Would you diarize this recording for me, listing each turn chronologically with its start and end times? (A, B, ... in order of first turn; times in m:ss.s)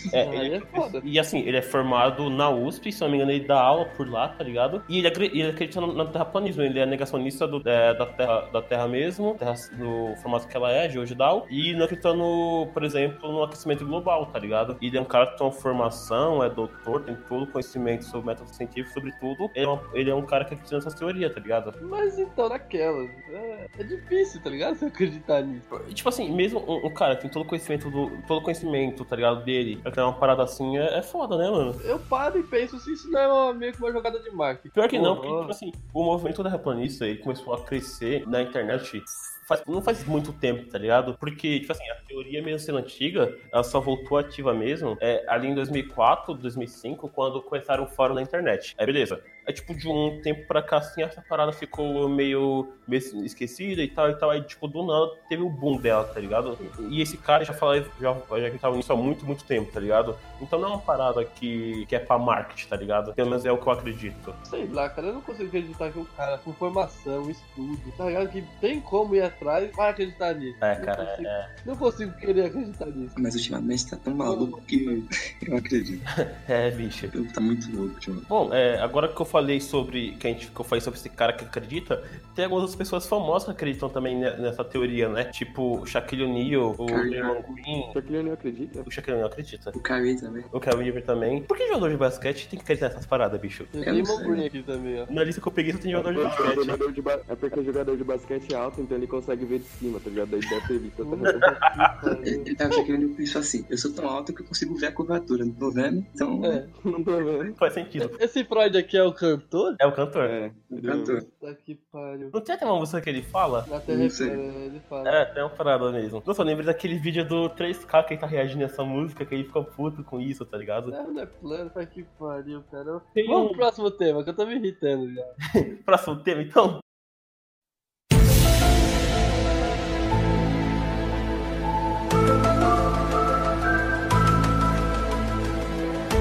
0:00.1-0:21.8 A
0:00.2-0:01.0 B
0:21.8-0:25.7 B
0:25.7-0:31.8 A
0:31.8-0:35.5 B
0:34.7-1:04.4 A
1:04.5-1:13.2 B
1:10.6-1:11.5 A
1:13.2-1:16.0 C
1:14.2-1:15.0 B
1:16.1-1:17.1 A
1:17.1-1:18.3 C
1:18.3-1:28.0 A
1:26.9-1:27.4 C
1:27.9-1:28.9 D
1:28.8-1:29.8 A
1:29.8-1:30.5 C
1:30.5-1:33.7 A
1:33.7-1:35.1 B
1:33.8-1:34.5 C
1:35.1-1:36.8 A
1:35.9-1:41.5 D
1:41.0-1:42.5 B
1:41.6-1:41.9 A
1:42.2-1:46.6 C
1:46.4-1:46.7 B
1:46.8-1:47.6 D
1:47.6-1:48.2 A
1:48.0-1:49.8 B
1:49.8-1:50.4 A
1:50.2-1:51.2 D
1:50.7-1:51.3 C
1:51.3-1:52.4 B
1:52.3-1:53.7 A
1:53.7-1:55.2 B
1:53.9-1:54.4 C
1:55.0-2:01.0 A
2:00.9-2:05.4 B
2:03.2-2:03.7 A
2:05.5-2:06.8 A